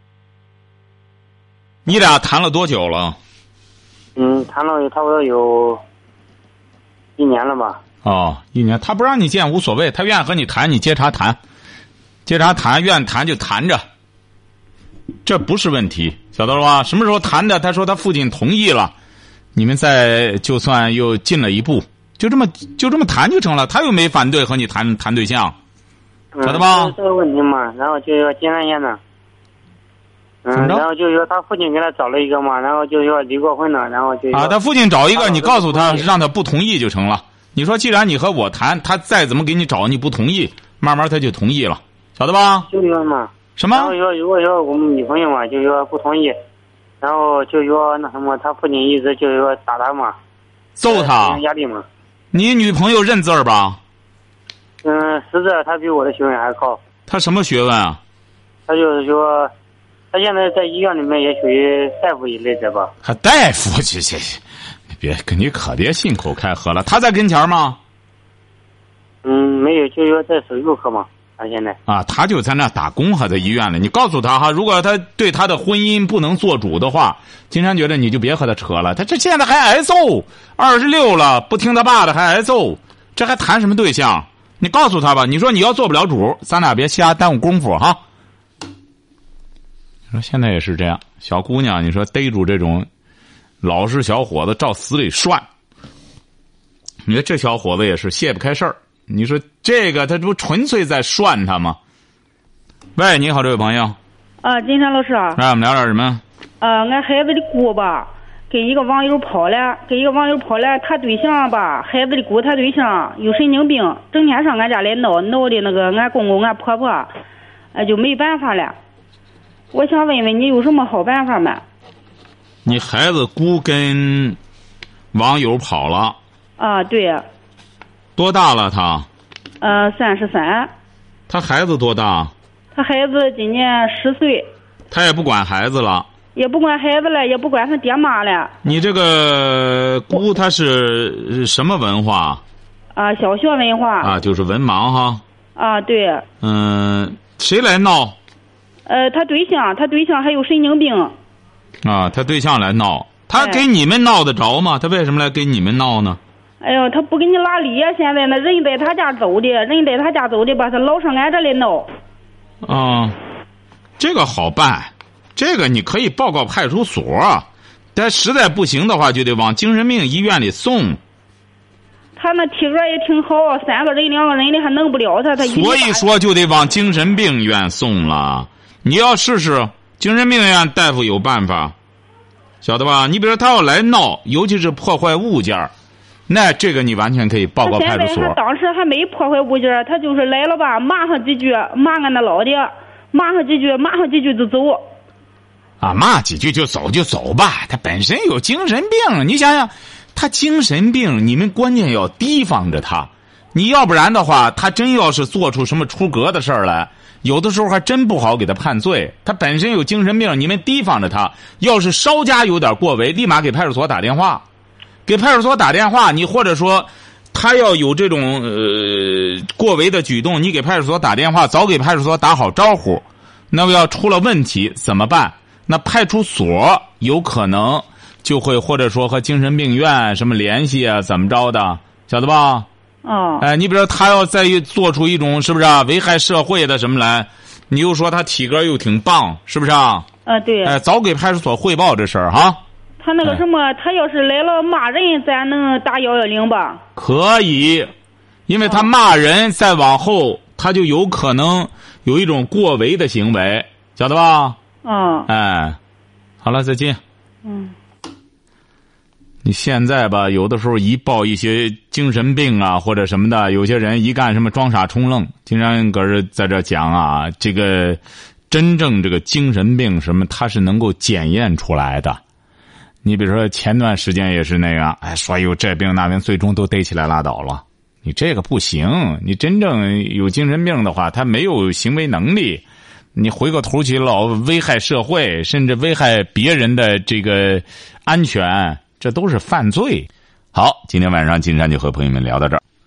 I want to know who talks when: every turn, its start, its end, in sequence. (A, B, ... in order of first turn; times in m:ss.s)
0:01.8-0:03.2 A
0:04.2-0:05.8 B
0:07.2-0:07.8 B
0:08.0-0:11.4 A
0:12.2-0:13.8 A
0:15.2-0:18.9 A
0:19.5-0:25.6 A
0:26.3-0:29.0 B
0:26.4-0:26.9 A
0:30.4-0:34.6 B
0:30.5-0:30.8 A
0:34.3-0:42.7 A
0:35.1-0:36.1 B
0:42.7-0:46.4 B
0:43.6-0:44.0 A
0:47.0-0:50.2 B
0:50.8-0:51.4 A
0:50.8-0:51.8 B
0:52.3-0:53.8 A
0:54.8-0:56.8 B
0:57.1-0:58.0 A
0:58.7-0:59.5 B
1:00.1-1:02.9 B
1:03.0-1:07.8 A
1:09.2-1:11.8 B
1:11.9-1:28.0 A
1:30.1-1:32.9 A
1:33.6-1:35.4 A
1:37.0-1:41.8 A
1:43.0-1:44.0 A
1:44.4-1:45.4 C
1:45.4-1:46.2 A
1:46.6-1:57.1 C
1:57.7-1:58.8 C
1:59.7-2:01.6 C
2:02.6-2:04.4 A
2:05.1-2:06.2 A
2:06.6-2:07.2 C
2:08.2-2:09.1 A
2:09.6-2:10.7 C
2:11.3-2:12.3 A
2:12.7-2:14.5 C
2:14.9-2:16.1 A
2:16.3-2:18.6 C
2:18.6-2:22.4 A
2:22.9-2:24.1 C
2:24.0-2:25.2 A
2:25.6-2:26.2 C
2:26.4-2:28.2 A
2:28.8-2:31.1 C
2:31.8-2:36.2 A
2:33.4-2:33.6 C
2:36.6-2:41.9 C
2:42.6-2:43.2 A
2:44.0-2:51.0 A
2:52.2-2:56.0 C
2:55.4-3:01.7 A
3:02.6-3:05.7 A
3:06.3-3:08.4 A
3:07.6-3:14.9 C
3:15.8-3:34.4 A
3:35.0-3:52.7 A
3:53.0-3:53.4 C
3:53.4-4:00.1 A
4:00.2-4:00.8 C
4:00.6-4:02.6 A
4:03.0-4:06.8 C
4:07.0-4:07.9 A
4:08.5-4:14.6 A
4:14.8-4:15.3 C
4:15.3-4:15.8 A
4:16.4-4:17.0 A
4:17.4-4:17.7 C
4:19.4-4:32.2 A
4:33.0-4:52.6 A